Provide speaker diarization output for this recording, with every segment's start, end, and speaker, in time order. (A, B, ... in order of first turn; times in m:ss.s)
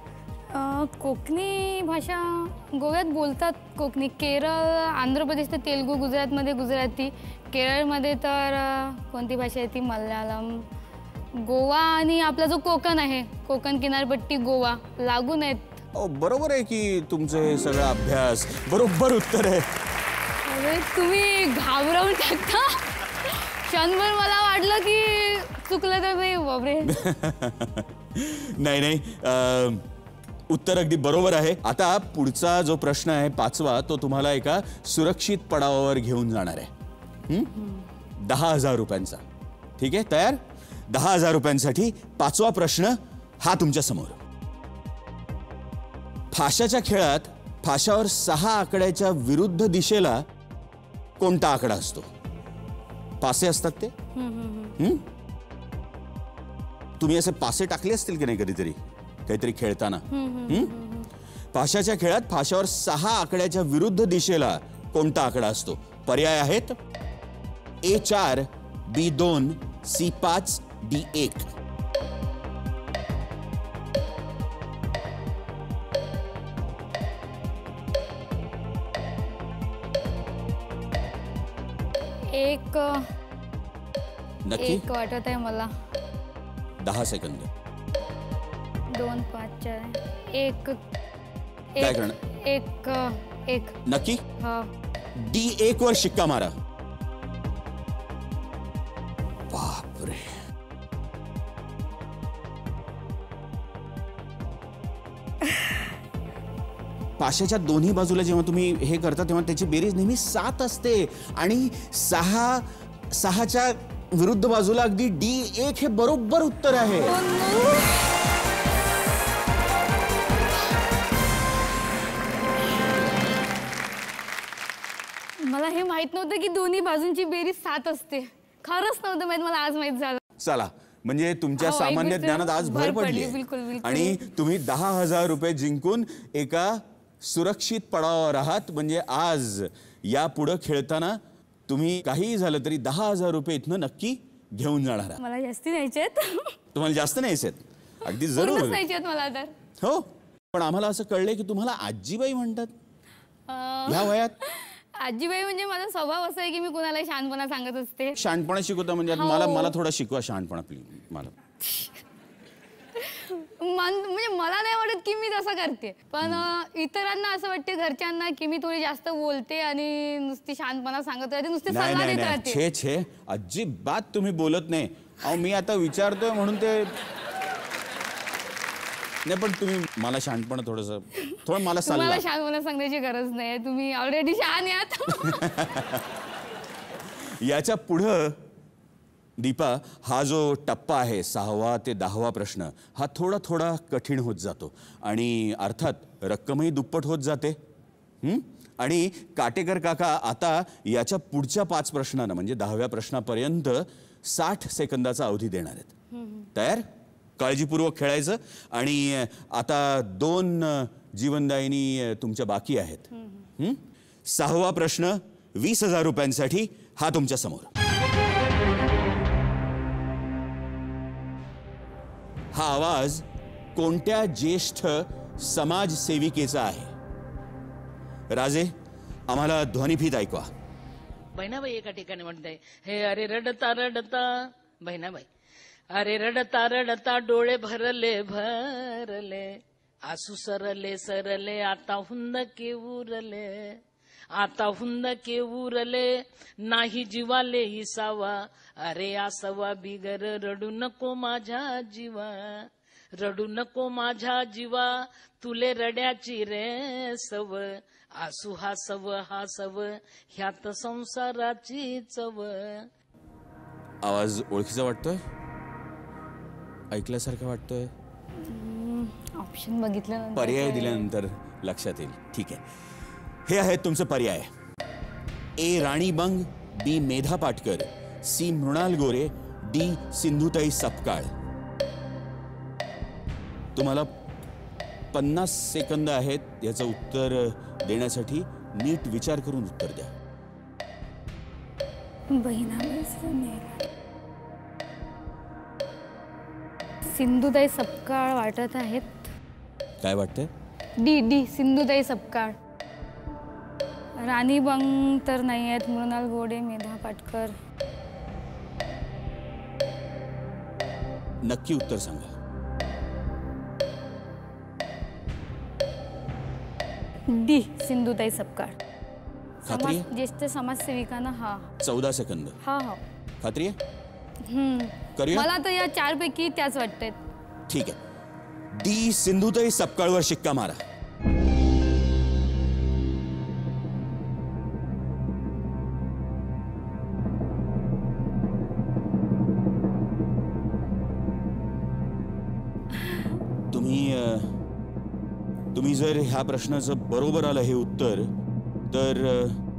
0:00.5-0:10.7 A
0:11.4-0:15.8 A
0:15.9-0:19.7 B
0:20.4-0:27.0 A
0:26.9-0:29.8 B
0:30.5-0:36.7 B
0:38.2-0:39.2 B
0:39.8-0:44.2 B
0:46.3-0:50.2 B
0:51.2-0:52.1 B
0:53.2-0:53.9 B
0:54.2-0:54.8 A
0:54.8-0:55.1 B
0:57.0-1:00.7 B
1:00.1-1:01.1 A
1:01.5-1:06.8 B
1:07.8-1:11.5 B
1:22.3-1:23.0 A
1:24.4-1:24.8 B
1:24.6-1:25.7 A
1:26.8-1:27.5 B
1:28.9-1:30.8 A
1:31.7-1:33.8 A
1:31.8-1:32.2 B
1:33.8-1:34.2 B
1:34.4-1:34.7 A
1:35.2-1:36.5 B
1:39.5-1:40.3 B
1:47.2-1:57.2 B
1:57.0-1:58.1 A
2:05.4-2:10.2 A
2:10.4-2:25.2 B
2:11.6-2:14.2 A
2:25.2-2:26.5 A
2:26.7-2:28.8 B
2:28.3-2:29.5 A
2:29.8-2:32.7 B
2:33.5-2:38.2 A
2:33.9-2:34.3 B
2:38.2-2:41.3 B
2:39.1-2:39.7 A
2:41.7-2:42.0 A
2:43.0-2:52.6 A
2:51.7-2:56.9 B
2:59.2-3:02.2 B
3:01.8-3:05.4 A
3:05.2-3:06.0 B
3:07.4-3:08.4 B
3:09.4-3:17.6 B
3:18.2-3:25.9 B
3:26.1-3:26.5 A
3:26.5-3:26.9 B
3:27.4-3:33.1 B
3:33.6-3:37.7 B
3:42.5-3:46.9 B
3:48.3-3:48.7 B
3:49.3-3:50.5 B
3:51.4-3:54.3 C
3:54.8-3:55.2 C
3:56.0-4:03.8 C
4:04.4-4:06.1 C
4:06.6-4:12.7 C
4:13.2-4:22.8 C
4:24.0-4:25.2 B
4:26.9-4:27.9 B
4:28.4-4:31.1 A
4:30.4-4:32.6 B
4:33.4-4:34.5 B
4:35.6-4:41.3 B
4:43.7-4:44.1 B
4:45.1-4:50.1 B
4:52.3-4:53.7 A
4:57.1-4:59.3 A
5:00.0-5:00.5 B
5:01.0-5:02.6 A
5:04.2-5:07.5 A
5:11.4-5:12.3 B
5:17.3-5:18.8 A
5:19.6-5:20.1 B
5:19.6-5:21.7 A
5:21.8-5:22.6 B
5:22.6-5:23.0 A
5:23.4-5:23.8 B
5:24.4-5:27.2 A
5:25.2-5:25.5 B
5:27.7-5:28.0 B
5:28.7-5:30.8 B
5:43.7-5:44.5 B
5:45.7-5:48.3 B
5:48.9-5:49.6 B